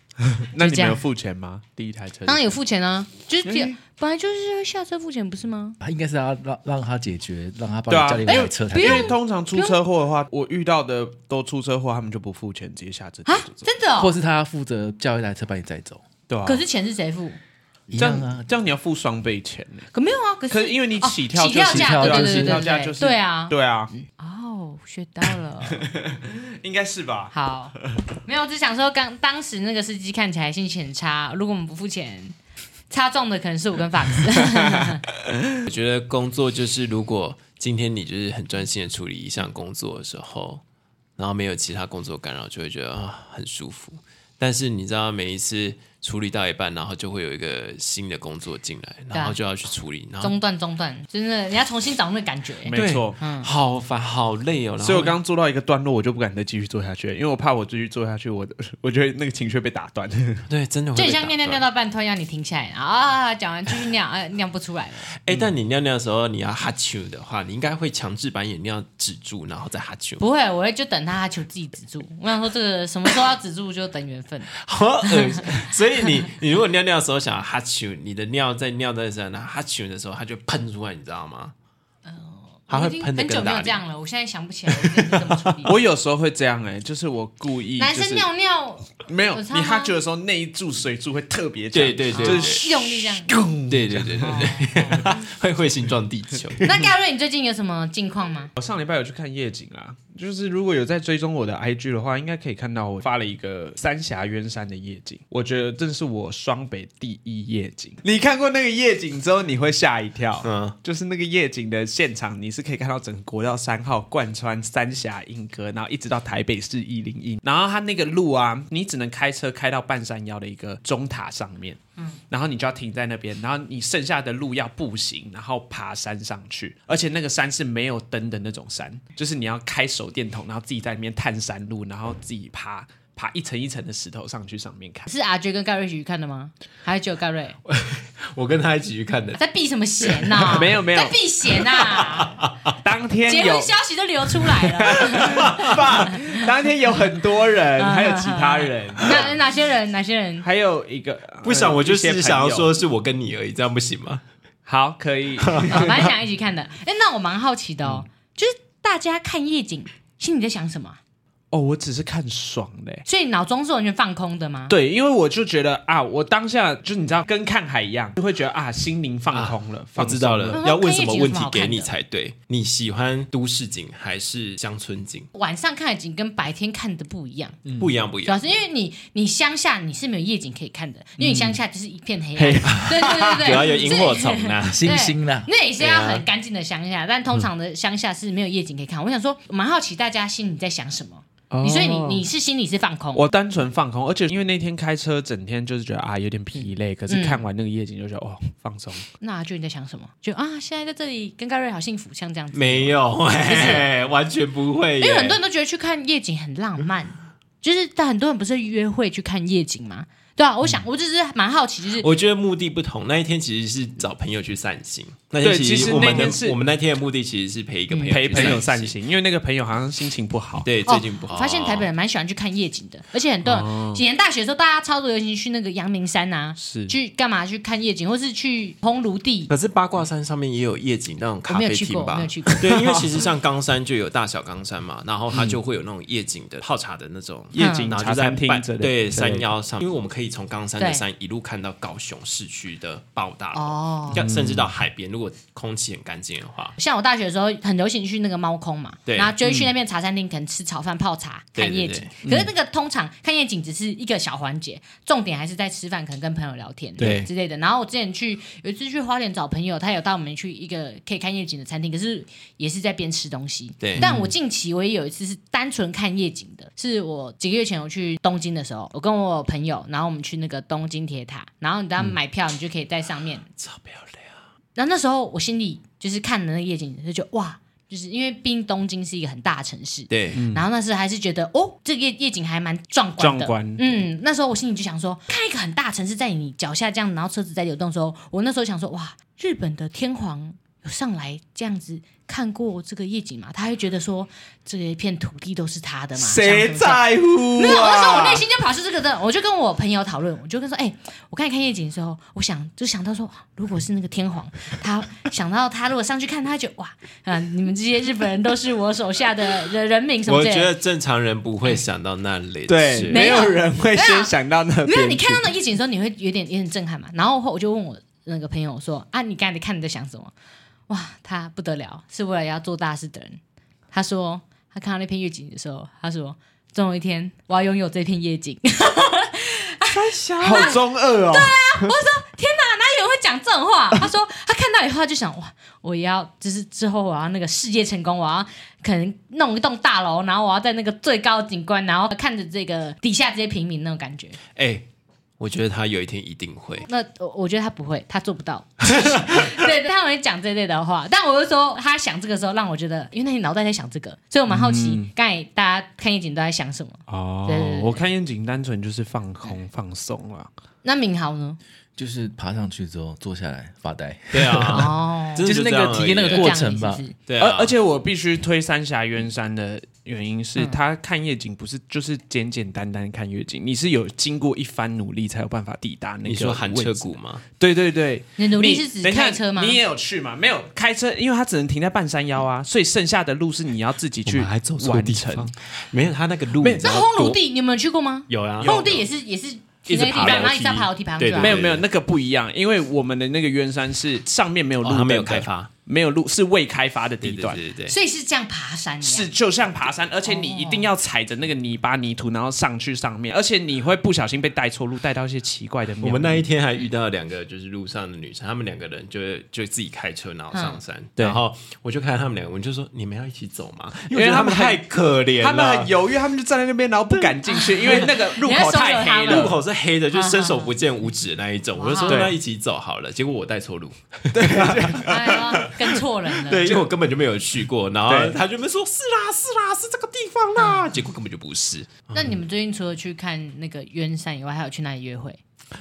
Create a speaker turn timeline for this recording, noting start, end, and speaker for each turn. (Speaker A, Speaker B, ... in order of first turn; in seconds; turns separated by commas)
Speaker A: 0.3-2.5, Speaker B: 0.5-1.0, Speaker B: 2.2-5.8, Speaker A: 3.4-3.8, Speaker C: 5.8-9.2, Speaker A: 7.9-13.7, Speaker B: 8.2-9.8, Speaker B: 13.2-14.1, Speaker C: 14.0-16.1, Speaker A: 16.3-16.6, Speaker B: 16.4-17.4, Speaker C: 17.9-18.4, Speaker A: 17.9-19.9, Speaker B: 19.9-25.9, Speaker A: 20.5-23.9, Speaker C: 21.6-22.6, Speaker A: 25.7-28.0, Speaker B: 27.3-32.4, Speaker B: 32.9-35.0, Speaker D: 35.6-40.6, Speaker D: 41.2-50.3, Speaker B: 50.2-53.5, Speaker A: 52.6-53.2, Speaker D: 52.7-55.2, Speaker A: 54.8-60.5, Speaker D: 60.5-61.6, Speaker B: 61.0-65.1, Speaker D: 65.2-70.2, Speaker B: 70.2-74.5, Speaker D: 74.6-81.5, Speaker B: 75.0-75.7, Speaker B: 82.0-85.8, Speaker D: 82.7-83.8, Speaker D: 84.7-85.2, Speaker A: 85.6-88.3, Speaker B: 87.8-89.9, Speaker A: 89.0-95.1, Speaker D: 91.7-92.6, Speaker B: 92.1-93.3, Speaker D: 93.7-96.8, Speaker B: 94.2-95.0, Speaker B: 96.6-98.5, Speaker A: 98.5-121.8, Speaker D: 110.4-110.8, Speaker A: 122.3-135.1, Speaker B: 135.1-137.6, Speaker D: 137.7-139.4, Speaker B: 139.4-142.4, Speaker D: 140.0-140.3, Speaker A: 140.4-141.2, Speaker D: 141.6-142.5, Speaker A: 142.8-143.7, Speaker B: 143.2-146.4, Speaker A: 144.4-149.3, Speaker D: 145.1-146.1, Speaker B: 147.8-150.4, Speaker A: 150.4-152.7, Speaker D: 151.4-154.2, Speaker A: 154.7-156.1, Speaker D: 155.4-156.0, Speaker B: 155.7-161.0, Speaker A: 161.5-163.0, Speaker B: 163.0-164.7, Speaker A: 164.7-170.6, Speaker D: 169.3-175.3, Speaker B: 170.5-171.9, Speaker B: 175.3-177.6, Speaker A: 177.7-177.9, Speaker D: 177.8-178.5, Speaker B: 178.2-193.3, Speaker A: 181.2-181.6, Speaker A: 182.3-183.7, Speaker D: 182.7-184.9, Speaker C: 184.6-185.5, Speaker D: 185.8-186.2, Speaker A: 191.5-192.2, Speaker A: 193.1-199.1, Speaker B: 196.5-197.4, Speaker B: 199.2-203.9, Speaker D: 202.5-205.4, Speaker B: 205.0-212.1, Speaker D: 212.0-218.9, Speaker A: 215.4-216.6, Speaker B: 215.9-216.3, Speaker B: 217.9-218.6, Speaker A: 218.1-220.7, Speaker D: 220.6-221.9, Speaker B: 220.8-229.5, Speaker A: 223.4-224.0, Speaker A: 226.6-226.9, Speaker D: 229.5-246.8, Speaker B: 231.5-233.0, Speaker A: 232.7-233.1, Speaker A: 237.5-239.5, Speaker B: 237.6-237.9, Speaker B: 240.8-241.0, Speaker B: 243.5-244.2, Speaker A: 244.1-244.7, Speaker B: 246.8-273.4, Speaker D: 249.1-249.4, Speaker A: 249.4-249.7, Speaker D: 251.6-252.2, Speaker D: 257.0-257.3, Speaker A: 264.0-264.3, Speaker D: 273.6-274.3, Speaker B: 274.7-310.7, Speaker D: 280.1-280.4, Speaker A: 280.3-280.7, Speaker A: 283.2-284.0, Speaker A: 296.2-298.4, Speaker D: 310.3-313.5, Speaker A: 312.7-315.5, Speaker B: 313.1-314.3, Speaker B: 314.8-320.3, Speaker B: 320.9-323.4, Speaker B: 323.9-344.4, Speaker A: 330.1-331.9, Speaker D: 330.2-330.8, Speaker D: 344.5-344.9, Speaker D: 345.4-346.9, Speaker B: 346.9-358.0, Speaker A: 354.5-355.1, Speaker A: 357.1-360.5, Speaker B: 360.8-361.6, Speaker C: 361.9-367.0, Speaker D: 364.3-366.5, Speaker B: 364.7-365.5, Speaker B: 366.1-367.1, Speaker D: 367.3-367.7, Speaker A: 367.4-385.5, Speaker D: 376.2-377.4, Speaker B: 378.4-379.8, Speaker D: 384.2-387.4, Speaker B: 386.8-391.6, Speaker D: 388.3-389.1, Speaker A: 388.6-389.0, Speaker D: 389.9-391.8, Speaker A: 390.1-390.5, Speaker A: 391.4-397.6, Speaker D: 394.8-395.7, Speaker D: 397.2-397.9, Speaker B: 397.9-399.3, Speaker A: 399.0-406.4, Speaker B: 400.2-400.9, Speaker D: 406.0-415.9, Speaker B: 410.5-410.8, Speaker A: 414.1-414.8, Speaker A: 415.4-419.5, Speaker B: 417.4-419.6, Speaker D: 419.1-425.8, Speaker B: 420.1-420.7, Speaker B: 421.8-422.3, Speaker A: 422.0-422.4, Speaker A: 424.3-425.7, Speaker B: 425.0-426.7, Speaker D: 426.4-432.4, Speaker A: 428.1-428.4, Speaker B: 430.6-430.9, Speaker B: 432.1-435.4